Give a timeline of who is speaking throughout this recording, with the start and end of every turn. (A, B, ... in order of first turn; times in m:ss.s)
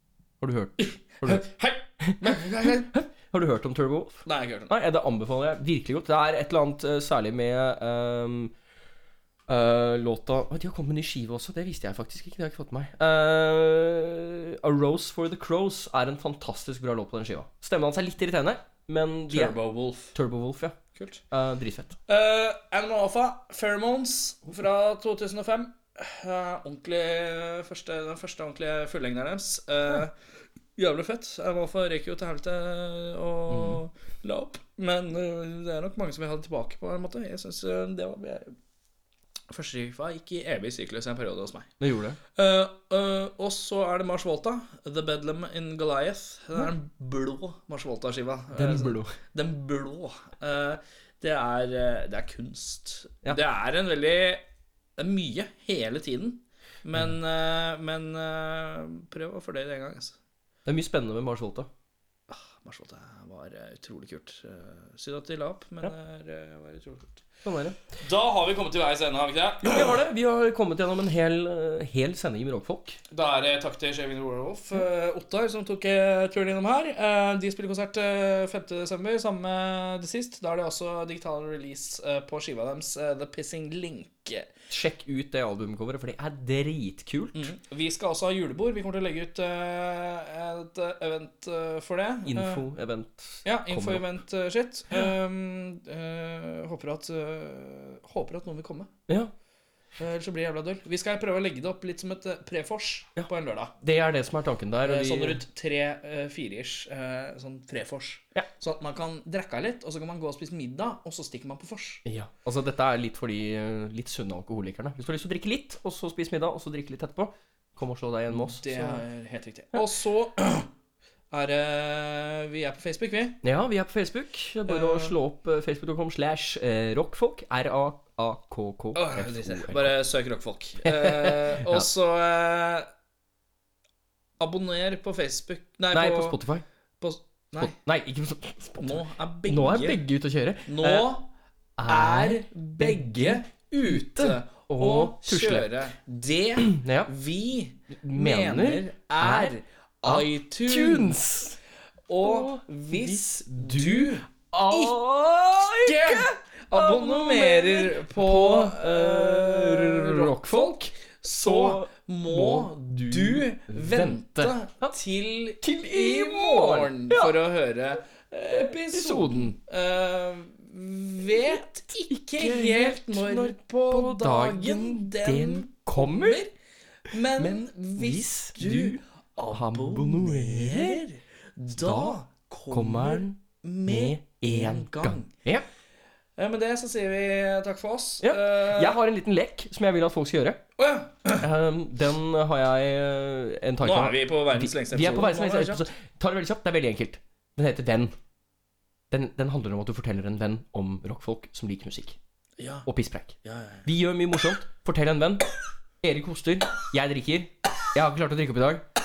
0:00.4-0:01.4 A
0:00.8-0:02.9 B
0:02.0-0:08.5 A
0:04.2-0:04.7 B
0:09.5-0:19.6 A
0:19.3-0:20.1 B
0:20.1-0:20.8 A
0:20.9-0:21.2 B
0:21.3-0:22.0 A
0:22.1-0:30.1 B
0:30.8-0:38.5 B
0:33.5-0:33.8 A
0:39.5-0:41.7 B
0:41.8-0:42.2 A
0:42.4-0:54.4 B
0:48.5-0:49.1 A
0:55.0-1:00.2 B
1:00.6-1:01.7 A
1:02.3-1:07.2 B
1:07.4-1:07.8 A
1:08.0-1:10.0 B
1:09.6-1:13.0 A
1:13.1-1:24.5 B
1:24.7-1:27.5 A
1:27.3-1:32.6 B
1:32.2-1:34.0 A
1:33.4-1:38.9 B
1:39.1-1:39.3 A
1:40.0-1:43.7 B
1:43.2-1:45.4 A
1:44.8-1:52.0 B
1:52.0-1:59.0 A
1:58.3-2:00.7 B
2:01.3-2:03.4 B
2:03.4-2:10.0 A
2:04.7-2:05.2 B
2:08.9-2:12.9 B
2:10.8-2:11.9 A
2:14.4-2:16.4 B
2:15.9-2:16.6 A
2:17.0-2:17.7 B
2:17.6-2:21.2 A
2:18.8-2:20.0 B
2:20.6-2:21.3 B
2:21.8-2:25.7 A
2:21.8-2:31.2 B
2:26.6-2:27.1 A
2:28.0-2:31.6 A
2:32.1-2:35.0 B
2:32.2-2:45.0 A
2:35.6-2:56.5 B
2:45.6-2:47.4 A
2:48.5-2:49.6 A
2:51.3-2:56.4 A
2:57.1-3:05.3 B
2:57.4-3:01.0 A
3:01.8-3:05.7 A
3:06.4-3:09.0 B
3:08.2-3:10.6 A
3:10.8-3:11.5 B
3:11.4-3:18.1 A
3:13.8-3:15.9 B
3:19.1-3:22.2 A
3:22.6-3:22.9 B
3:22.8-3:25.4 A
3:23.4-3:23.8 B
3:26.0-3:28.8 A